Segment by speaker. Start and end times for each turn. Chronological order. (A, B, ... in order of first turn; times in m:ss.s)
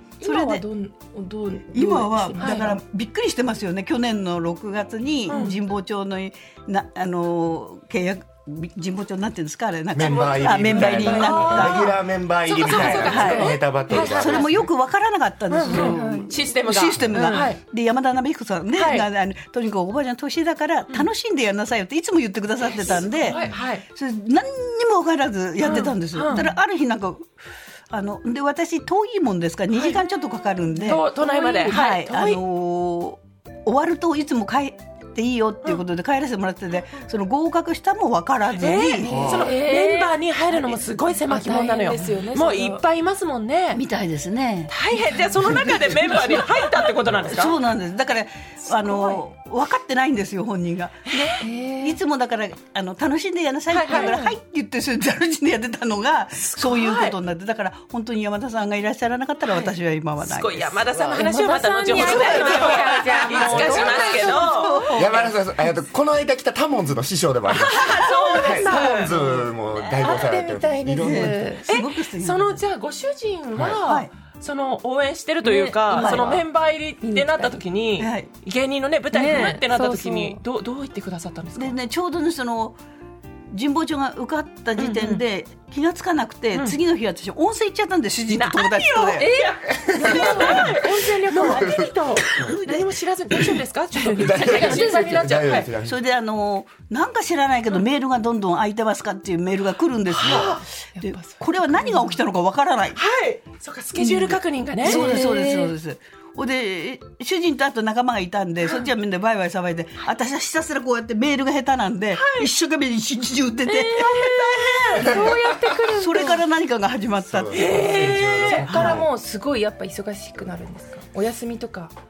0:00.2-0:02.8 A
0:00.2-0:00.6 B
0:01.7-0:11.9 B
0:02.4-0:02.7 C
0:05.3-0:05.6 C
0:09.9-0:14.7 D
0:10.0-0:11.9 C
0:10.8-0:11.8 A
0:12.4-0:14.6 C
0:12.6-0:27.3 B
0:15.5-0:17.6 C
0:15.7-0:16.3 A
0:17.1-0:17.5 A
0:18.7-0:19.1 C
0:22.7-0:23.8 C
0:23.3-0:23.6 A
0:25.6-0:26.5 C
0:27.9-0:39.3 B
0:29.7-0:30.0 C
0:30.8-0:32.4 C
0:38.6-0:43.8 C
0:39.0-0:39.5 D
0:39.0-0:40.1 A
0:41.3-0:42.8 A
0:43.7-0:44.7 B
0:44.7-0:47.6 C
0:45.4-1:01.0 B
0:47.0-0:47.3 D
0:48.7-0:49.2 C
0:51.1-0:51.4 C
0:51.4-0:52.0 A
0:53.7-0:54.2 C
0:53.8-0:54.3 A
0:56.5-0:57.2 C
0:59.5-1:05.0 C
1:01.0-1:05.0 A
1:01.9-1:05.3 B
1:03.3-1:04.2 D
1:04.9-1:11.4 D
1:07.5-1:09.2 C
1:07.9-1:08.6 B
1:08.5-1:09.1 A
1:09.8-1:10.2 C
1:10.0-1:11.6 A
1:11.0-1:12.6 B
1:11.7-1:21.8 C
1:13.7-1:14.1 B
1:15.4-1:16.4 A
1:15.9-1:16.4 B
1:17.0-1:17.5 A
1:18.0-1:18.3 B
1:19.1-1:20.4 A
1:21.6-1:22.8 B
1:23.5-1:29.3 B
1:24.8-1:25.2 C
1:28.3-1:35.7 C
1:29.2-1:30.8 A
1:29.7-1:32.5 D
1:30.0-1:30.8 B
1:31.3-1:31.7 B
1:32.3-1:32.9 B
1:34.0-1:35.2 A
1:34.2-1:36.0 D
1:35.8-1:43.0 B
1:40.1-1:40.6 C
1:40.4-1:42.2 A
1:43.0-1:45.2 C
1:44.0-1:59.0 B
1:44.8-1:45.7 A
1:52.2-1:52.5 C
1:53.7-1:56.4 A
1:54.3-1:55.0 C
1:57.2-1:59.1 D
1:57.5-1:58.7 C
1:58.5-2:01.9 A